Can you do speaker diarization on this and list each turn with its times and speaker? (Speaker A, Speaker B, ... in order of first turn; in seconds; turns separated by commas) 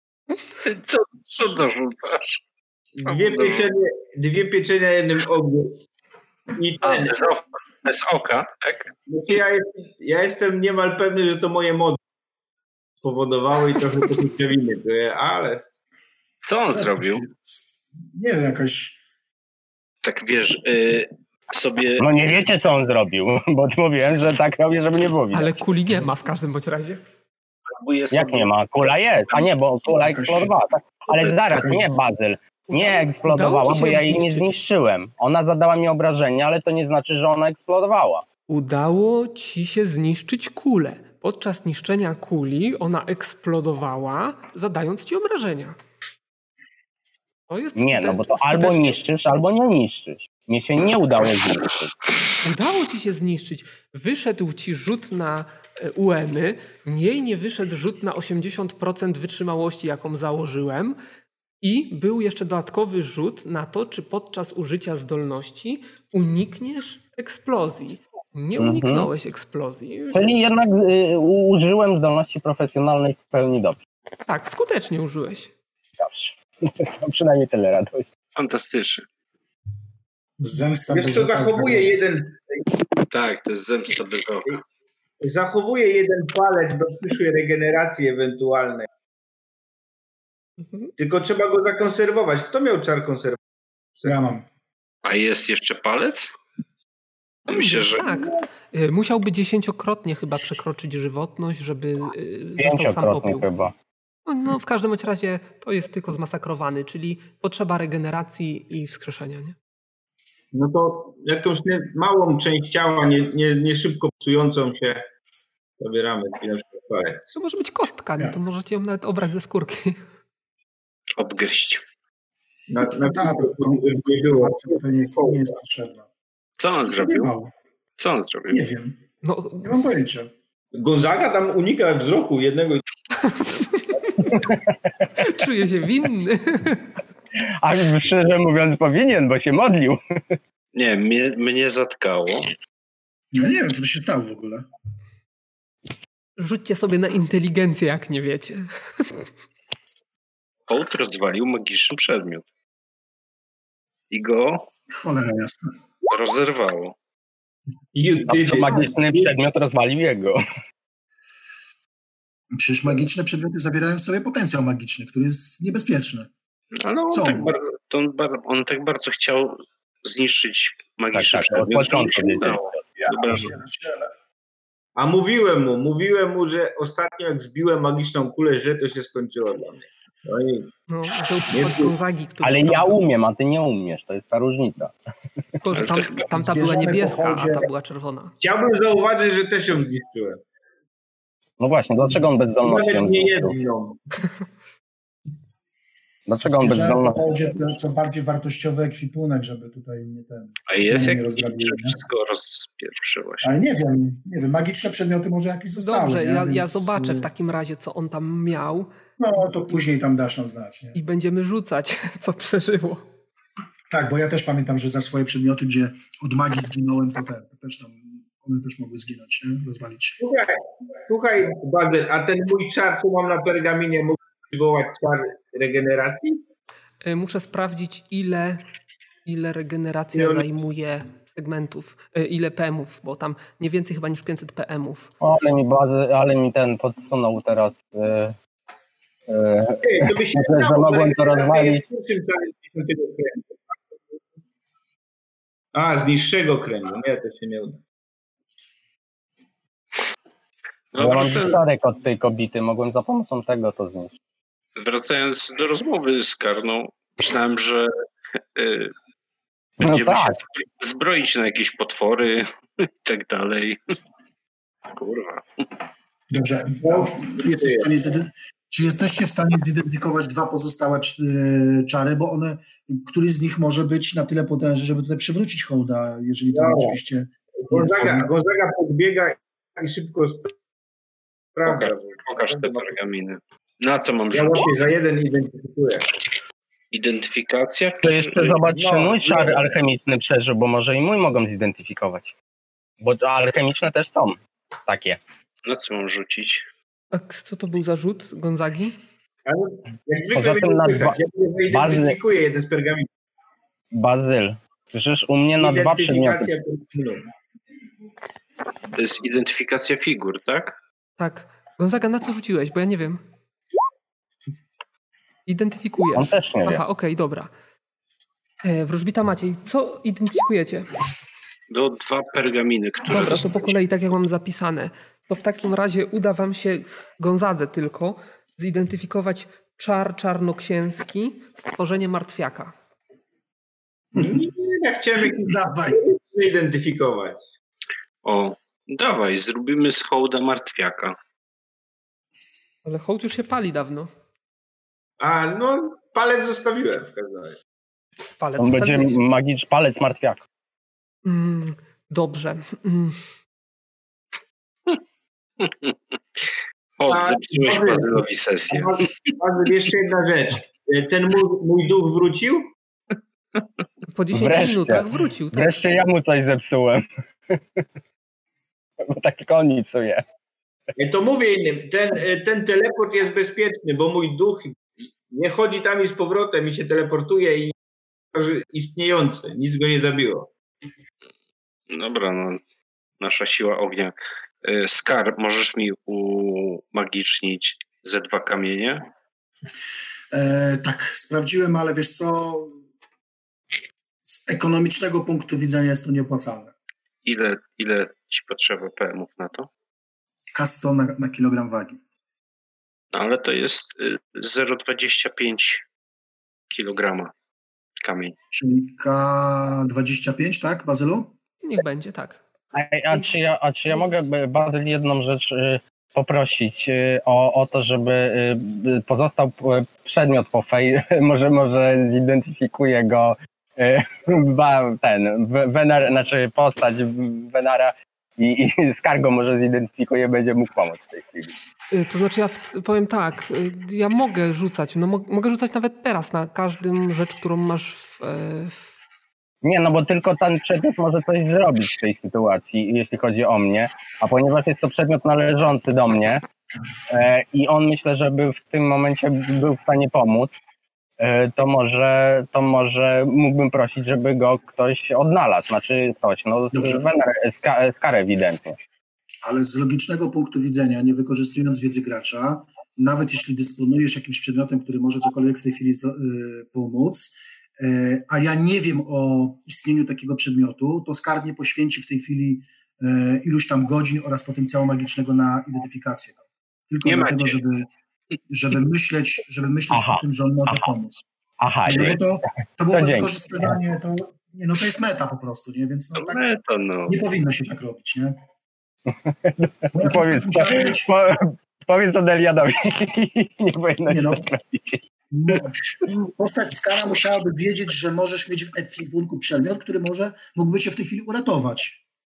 Speaker A: 0.6-2.4, Speaker B: 3.0-5.8, Speaker A: 3.1-3.7, Speaker B: 6.5-7.4, Speaker A: 6.8-8.9, Speaker B: 9.1-12.0, Speaker B: 13.0-15.6, Speaker A: 16.4-17.2, Speaker C: 16.7-19.0, Speaker A: 20.0-22.1, Speaker D: 22.0-25.6, Speaker E: 25.3-27.0, Speaker A: 27.7-28.5, Speaker D: 28.1-38.2, Speaker C: 30.0-30.6, Speaker C: 31.5-32.0, Speaker E: 32.7-34.5, Speaker E: 38.5-45.8, Speaker E: 47.5-49.0, Speaker D: 47.8-51.9, Speaker E: 52.4-61.0, Speaker E: 61.6-70.3, Speaker D: 68.6-69.1, Speaker D: 70.1-73.8, Speaker E: 74.3-75.5, Speaker D: 76.0-78.1, Speaker A: 78.4-79.1, Speaker C: 80.4-81.9, Speaker B: 80.9-82.6, Speaker A: 83.1-84.6, Speaker B: 85.2-88.9, Speaker B: 91.0-93.4, Speaker C: 94.0-94.5, Speaker A: 95.0-96.3, Speaker A: 97.5-98.4, Speaker E: 97.5-103.5, Speaker D: 102.6-103.7, Speaker E: 104.3-109.6, Speaker B: 110.5-115.0, Speaker B: 115.8-117.3, Speaker E: 117.3-120.0, Speaker A: 121.2-121.8, Speaker B: 122.7-125.5, Speaker C: 123.0-126.1, Speaker A: 126.6-127.3, Speaker C: 126.8-127.5, Speaker A: 128.0-128.7, Speaker C: 128.5-129.0, Speaker E: 129.2-129.8, Speaker C: 129.6-130.3, Speaker B: 130.7-132.8, Speaker E: 133.2-134.2, Speaker E: 135.2-136.9, Speaker D: 137.6-140.4, Speaker A: 140.8-142.5, Speaker C: 143.3-144.7, Speaker E: 146.4-149.3, Speaker A: 150.7-152.5, Speaker A: 154.1-154.6, Speaker C: 154.9-155.7, Speaker A: 156.1-156.9, Speaker B: 157.9-159.3, Speaker D: 158.3-160.4, Speaker C: 162.5-166.3, Speaker A: 166.8-173.6, Speaker C: 167.1-167.6, Speaker D: 171.1-172.8, Speaker C: 173.0-174.1, Speaker B: 175.0-180.7, Speaker E: 180.9-183.0, Speaker B: 181.5-181.9, Speaker D: 182.4-184.9, Speaker E: 185.6-188.3, Speaker A: 185.7-186.2, Speaker C: 186.3-187.7, Speaker B: 188.4-190.4, Speaker D: 191.6-193.6, Speaker B: 192.6-194.0, Speaker D: 196.3-197.3, Speaker C: 196.4-202.0, Speaker A: 200.7-203.5, Speaker C: 203.4-207.3, Speaker E: 205.8-208.9, Speaker C: 209.2-211.0, Speaker E: 210.9-213.0, Speaker C: 213.9-220.2, Speaker B: 220.2-226.4, Speaker E: 227.0-228.6, Speaker E: 229.2-235.1, Speaker B: 230.1-230.5, Speaker D: 235.2-238.3, Speaker D: 239.3-241.8, Speaker B: 239.8-243.6, Speaker B: 245.7-247.8, Speaker A: 250.9-251.6, Speaker D: 251.0-254.1, Speaker A: 254.8-257.9, Speaker A: 258.6-258.9, Speaker A: 259.8-263.8, Speaker D: 259.8-260.4, Speaker A: 264.9-265.7, Speaker C: 266.3-278.3, Speaker B: 266.8-267.9, Speaker B: 276.5-277.0, Speaker B: 277.7-280.6, Speaker B: 281.6-283.0, Speaker A: 281.7-284.7, Speaker B: 284.3-286.1, Speaker A: 286.9-288.6, Speaker D: 288.0-292.3, Speaker B: 288.7-289.7, Speaker D: 293.0-295.2, Speaker A: 295.7-296.6, Speaker E: 297.1-299.0, Speaker B: 299.5-303.1, Speaker D: 300.4-301.2, Speaker D: 301.7-302.2, Speaker D: 303.9-306.5, Speaker B: 305.6-307.3, Speaker A: 308.9-310.8, Speaker E: 311.2-313.2, Speaker E: 315.5-317.5, Speaker D: 316.1-316.8, Speaker E: 318.6-320.9, Speaker A: 321.7-323.6, Speaker E: 323.1-332.7, Speaker C: 334.2-334.5, Speaker B: 334.2-337.5, Speaker C: 335.3-336.0, Speaker A: 338.2-341.2, Speaker E: 342.9-344.1, Speaker B: 345.2-347.6, Speaker E: 348.4-349.2, Speaker D: 348.6-350.4, Speaker E: 351.2-353.2, Speaker A: 355.6-355.9, Speaker A: 357.0-359.3, Speaker B: 357.1-362.7, Speaker E: 364.1-365.9, Speaker D: 364.3-367.9, Speaker D: 369.0-370.2, Speaker B: 371.0-377.8, Speaker B: 378.3-380.5, Speaker A: 381.9-382.6, Speaker A: 383.2-384.1, Speaker A: 384.6-389.1, Speaker C: 390.3-392.8, Speaker C: 394.2-396.7, Speaker A: 397.2-399.7, Speaker C: 400.5-402.0, Speaker A: 403.1-405.8, Speaker A: 406.7-407.3, Speaker A: 408.0-408.4, Speaker C: 408.5-411.3, Speaker E: 411.6-412.4, Speaker D: 412.7-431.5, Speaker E: 431.9-438.9, Speaker D: 439.6-446.4, Speaker D: 447.1-450.6, Speaker D: 451.2-458.8, Speaker C: 456.7-457.1, Speaker C: 459.4-476.4, Speaker C: 476.9-477.9, Speaker A: 477.0-477.6, Speaker C: 478.5-481.2, Speaker D: 479.9-480.9, Speaker D: 481.6-482.2, Speaker C: 481.9-486.5, Speaker D: 482.9-483.3, Speaker A: 486.1-487.2, Speaker C: 487.1-488.4, Speaker D: 489.1-495.6, Speaker C: 489.9-491.1, Speaker C: 494.1-494.5, Speaker C: 495.3-502.0